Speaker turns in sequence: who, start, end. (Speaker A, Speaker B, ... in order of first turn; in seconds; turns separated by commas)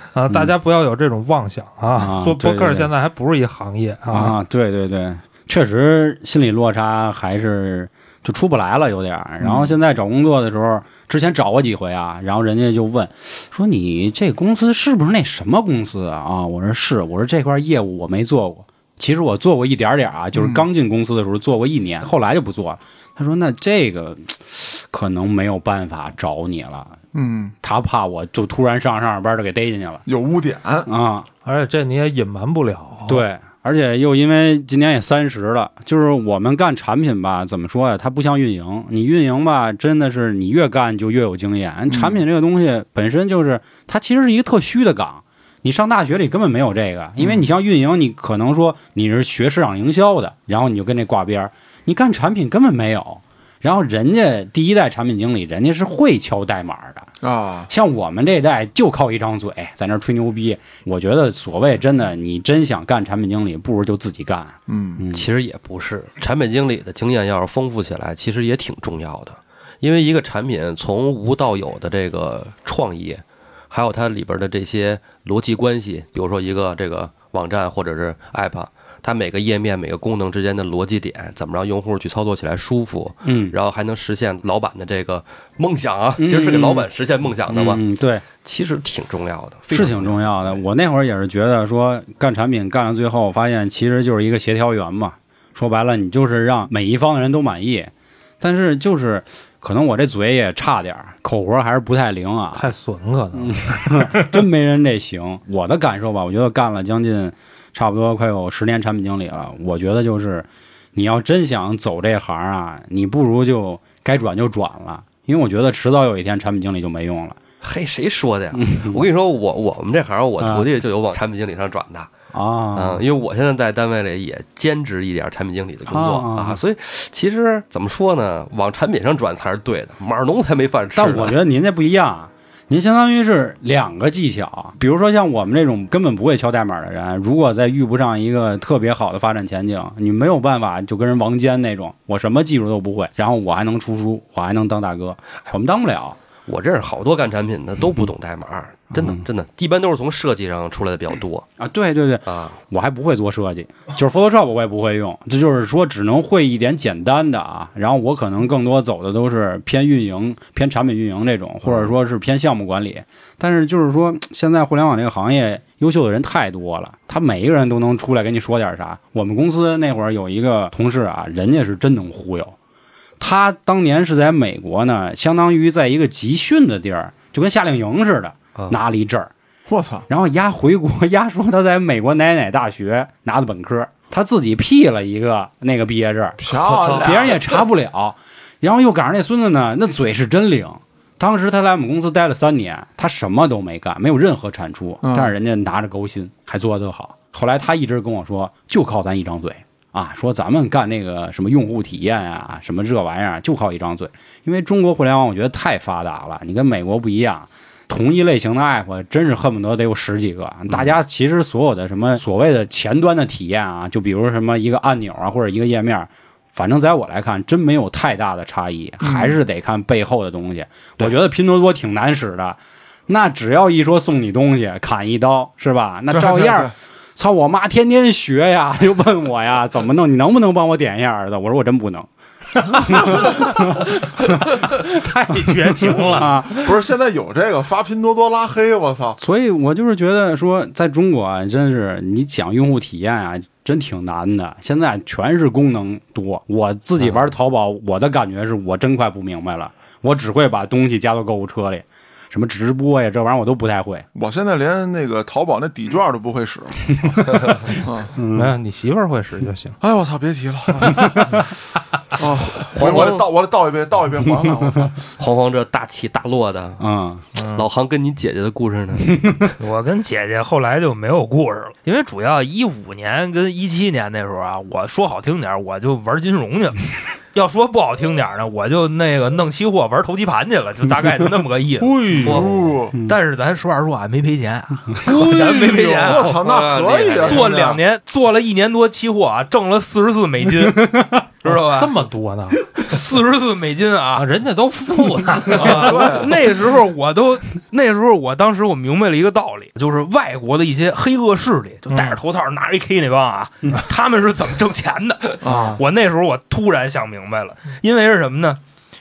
Speaker A: 0.1-4.4, Speaker B: 0.3-0.6, Speaker B: 2.0-2.9, Speaker B: 4.1-27.0, Speaker C: 9.4-9.7, Speaker C: 20.4-20.7, Speaker C: 27.1-27.5, Speaker B: 27.6-30.0, Speaker C: 30.1-30.9, Speaker B: 30.9-31.3, Speaker A: 31.4-33.2, Speaker B: 33.1-57.1, Speaker C: 41.9-42.2, Speaker C: 47.2-47.5, Speaker C: 57.2-57.7, Speaker B: 57.7-65.3, Speaker C: 64.7-65.0, Speaker D: 65.1-87.8, Speaker B: 83.2-83.6, Speaker B: 86.2-86.9, Speaker B: 87.5-88.2, Speaker D: 88.4-90.6, Speaker B: 89.7-102.7, Speaker A: 102.5-104.4, Speaker B: 103.3-117.4, Speaker D: 117.6-122.1, Speaker B: 118.5-119.1, Speaker B: 120.4-120.7, Speaker B: 122.3-123.0, Speaker D: 122.7-131.4, Speaker B: 125.9-126.6, Speaker B: 130.9-146.2, Speaker D: 146.5-151.5, Speaker B: 148.9-149.2, Speaker B: 151.6-172.6, Speaker D: 152.3-152.6, Speaker D: 161.7-161.9, Speaker B: 173.2-179.3, Speaker C: 179.7-180.1, Speaker B: 180.1-233.9, Speaker C: 186.4-187.6, Speaker D: 186.6-187.3, Speaker C: 195.0-195.3, Speaker D: 210.7-211.0, Speaker C: 219.0-219.4, Speaker C: 226.1-226.7, Speaker A: 232.8-236.5, Speaker B: 235.4-236.7, Speaker C: 236.5-239.2, Speaker B: 239.2-254.1, Speaker C: 254.2-258.1, Speaker B: 258.2-258.6, Speaker A: 258.3-259.8, Speaker C: 259.8-261.5, Speaker C: 262.1-265.0, Speaker D: 262.6-263.3, Speaker D: 265.2-266.9, Speaker B: 266.8-267.2, Speaker A: 267.4-267.6, Speaker D: 267.5-269.5, Speaker B: 269.2-269.5, Speaker E: 269.6-282.5, Speaker A: 281.8-282.6, Speaker C: 282.2-283.0, Speaker D: 282.2-282.5, Speaker E: 283.0-286.4, Speaker A: 285.1-286.1, Speaker C: 285.4-287.8, Speaker D: 286.2-287.5, Speaker E: 287.2-292.0, Speaker B: 290.9-291.1, Speaker A: 291.5-292.8, Speaker E: 292.7-294.3, Speaker A: 294.1-296.3, Speaker E: 295.5-308.6, Speaker C: 295.6-296.3, Speaker A: 301.9-302.2, Speaker C: 305.4-305.8